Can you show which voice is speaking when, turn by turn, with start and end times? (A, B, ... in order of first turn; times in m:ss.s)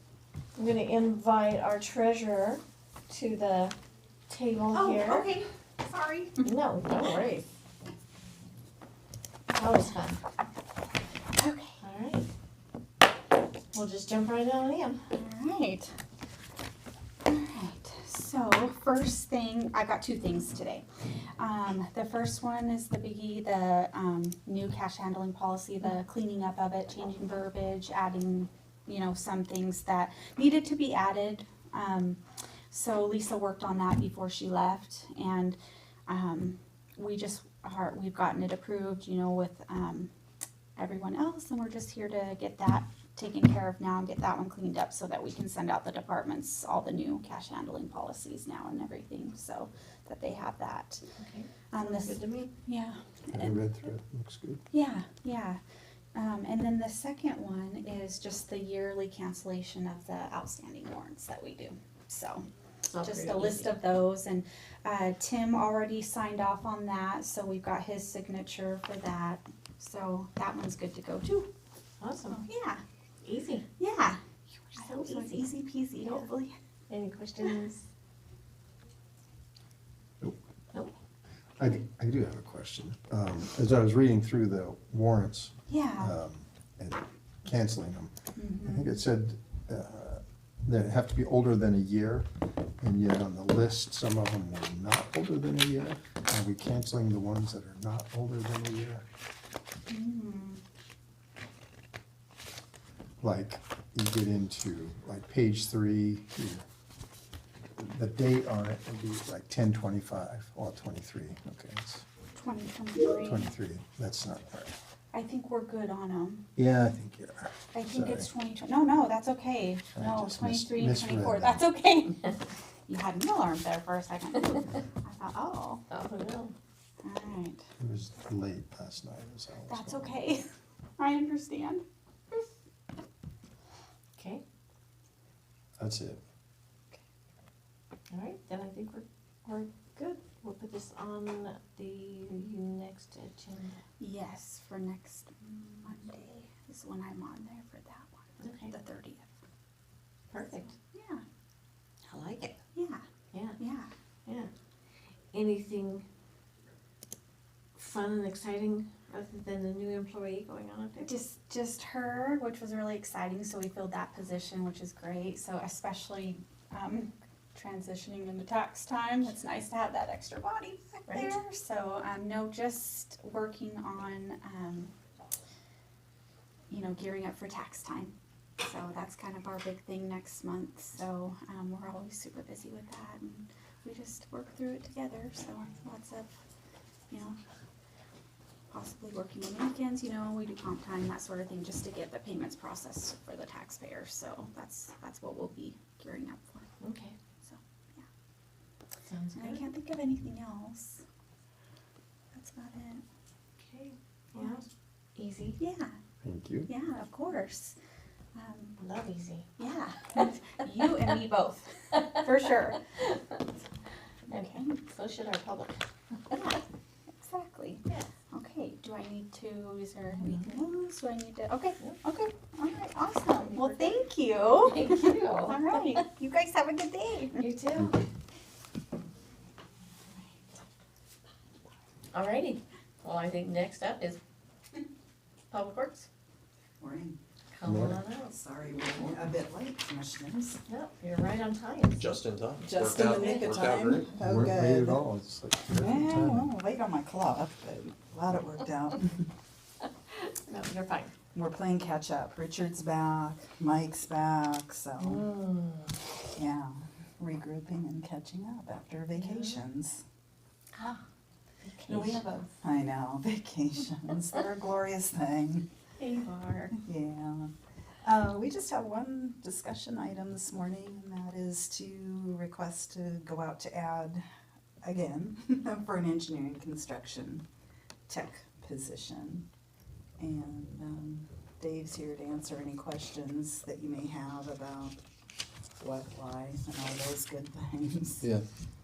0:00.6-0:03.7 A
0:04.3-0:05.3 A
0:04.7-0:06.5 B
0:06.4-0:07.5 A
0:09.5-0:10.2 A
0:11.4-0:11.8 B
0:11.8-0:12.3 A
0:13.7-0:15.0 A
0:15.1-0:15.9 B
0:17.2-0:20.8 B
0:21.4-0:35.6 B
0:36.1-0:40.1 B
0:40.8-0:51.0 B
0:51.2-0:52.5 A
0:51.7-0:53.7 B
0:53.3-0:54.6 C
0:54.7-0:55.6 B
0:56.1-1:02.4 B
1:02.9-1:03.7 A
1:03.0-1:11.5 B
1:12.0-1:12.4 A
1:12.3-1:12.8 B
1:13.2-1:13.6 A
1:13.8-1:14.2 B
1:14.7-1:15.5 A
1:14.7-1:16.5 B
1:16.9-1:17.8 A
1:21.6-1:32.3 C
1:25.7-1:26.2 B
1:28.4-1:28.9 B
1:32.8-1:39.0 C
1:39.9-1:40.6 B
1:43.2-1:46.6 C
1:47.8-1:52.0 C
1:52.3-1:53.5 B
1:53.0-1:54.8 C
1:55.1-1:56.4 B
1:56.6-1:58.3 C
1:57.7-2:05.8 B
1:59.9-2:01.6 C
2:05.9-2:06.5 A
2:07.0-2:07.6 B
2:07.8-2:10.2 C
2:09.7-2:11.8 B
2:14.2-2:14.4 A
2:15.8-2:16.2 C
2:18.1-2:23.8 A
2:24.0-2:29.3 B
2:28.4-2:28.7 A
2:30.3-2:30.7 A
2:30.5-2:31.2 B
2:32.1-2:32.5 D
2:32.7-2:33.0 B
2:33.6-2:33.9 B
2:35.3-2:36.0 A
2:37.8-2:41.1 A
2:41.0-2:54.9 B
2:51.1-2:51.4 A
2:56.7-3:06.3 B
3:07.1-3:07.4 B
3:08.7-3:16.7 B
3:16.8-3:17.1 A
3:17.4-3:18.0 B
3:19.0-3:19.6 A
3:19.3-3:21.0 B
3:22.3-3:23.0 B
3:23.6-3:24.6 A
3:25.2-3:25.6 A
3:25.6-3:26.0 B
3:26.2-3:26.7 C
3:26.7-3:27.8 B
3:28.3-3:28.7 B
3:28.8-3:29.5 A
3:29.6-3:32.8 B
3:34.3-3:34.8 B
3:34.3-3:35.8 A
3:36.3-3:36.6 B
3:37.1-3:47.4 B
3:40.2-3:40.4 A
3:43.6-3:43.9 A
3:44.6-3:46.0 A
3:47.3-3:48.0 A
3:52.1-3:54.2 A
3:55.5-3:56.1 A
3:56.8-3:57.2 D
3:57.5-3:58.3 A
3:57.6-3:58.0 C
3:57.9-4:00.6 D
4:00.7-4:02.2 A
4:02.0-4:04.2 E
4:02.6-4:05.0 D
4:03.1-4:03.4 A
4:04.2-4:06.5 C
4:05.7-4:09.2 D
4:10.3-4:11.1 A
4:11.3-4:15.3 D
4:15.0-4:15.9 A
4:16.3-4:20.0 D
4:19.1-4:19.6 A
4:21.6-4:22.2 A
4:21.8-4:25.6 D
4:26.0-4:26.7 A
4:26.7-4:27.5 D
4:28.0-4:34.2 D
4:34.8-4:37.4 D
4:38.1-4:39.4 D
4:40.2-4:45.0 D
4:45.8-4:48.3 D